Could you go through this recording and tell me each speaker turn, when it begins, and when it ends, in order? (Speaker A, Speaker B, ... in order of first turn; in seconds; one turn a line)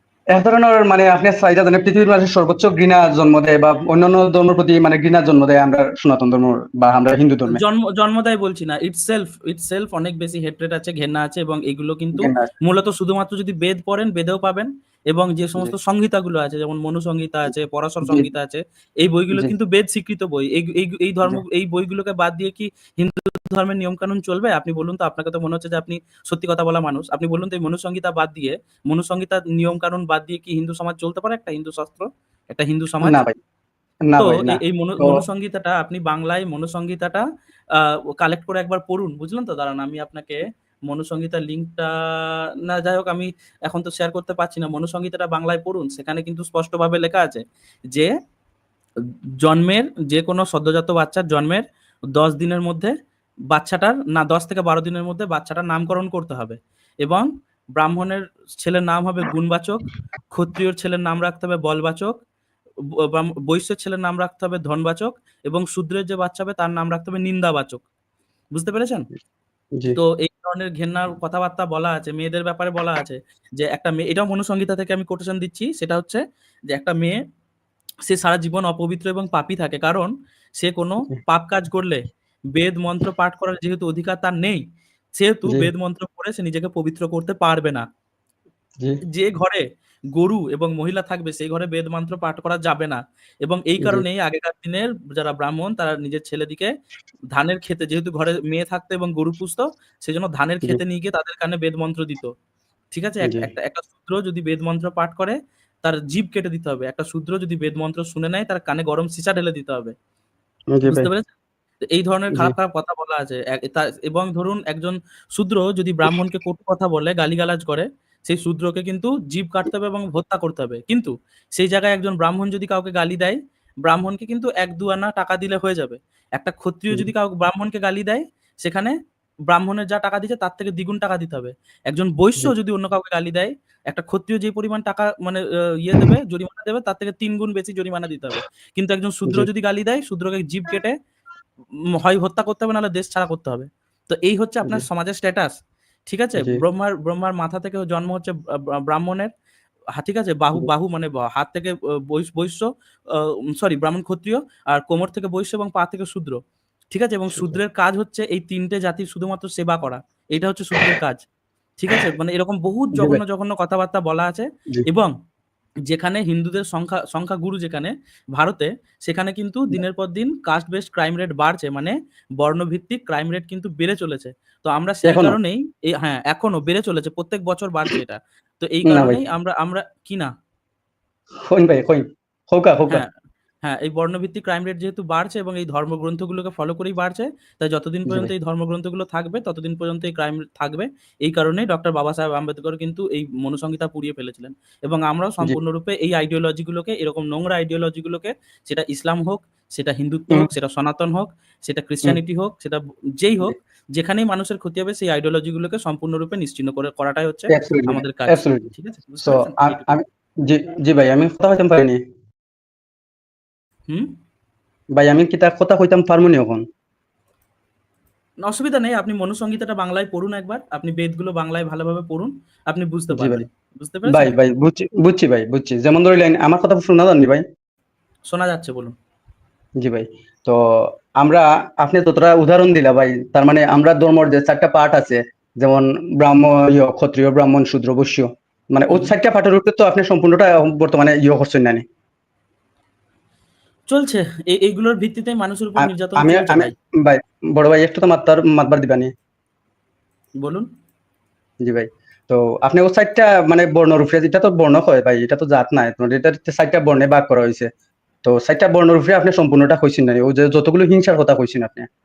Speaker A: 0.3-7.6
Speaker B: 7.5-33.2
Speaker A: 12.2-12.5
Speaker A: 33.0-33.4
Speaker A: 34.1-35.2
Speaker B: 34.2-48.1
Speaker B: 49.4-51.6
Speaker B: 52.1-52.9
Speaker B: 53.5-62.2
Speaker B: 63.0-67.8
Speaker B: 68.5-69.1
Speaker B: 70.0-77.2
Speaker B: 78.1-82.0
Speaker B: 82.5-84.6
Speaker B: 85.2-87.8
Speaker B: 89.1-96.7
Speaker B: 97.3-102.3
Speaker B: 102.9-110.0
Speaker A: 110.7-111.1
Speaker B: 110.8-111.3
Speaker B: 111.9-128.9
Speaker B: 129.5-140.9
Speaker B: 142.0-145.5
Speaker B: 146.1-149.3
Speaker B: 150.0-156.4
Speaker B: 156.9-161.2
Speaker B: 161.8-165.1
Speaker A: 162.9-163.2
Speaker B: 165.9-180.3
Speaker A: 175.1-175.4
Speaker A: 178.9-179.2
Speaker A: 181.5-183.0
Speaker B: 183.6-209.9
Speaker A: 207.5-208.7
Speaker A: 209.2-212.0
Speaker A: 214.9-216.6
Speaker B: 218.4-224.3
Speaker A: 223.1-223.4
Speaker A: 224.1-227.4
Speaker B: 228.3-228.9
Speaker A: 229.8-241.8
Speaker B: 238.9-239.2
Speaker B: 243.9-246.7
Speaker A: 245.8-249.1
Speaker B: 250.4-250.7
Speaker A: 251.6-257.7
Speaker A: 258.2-261.9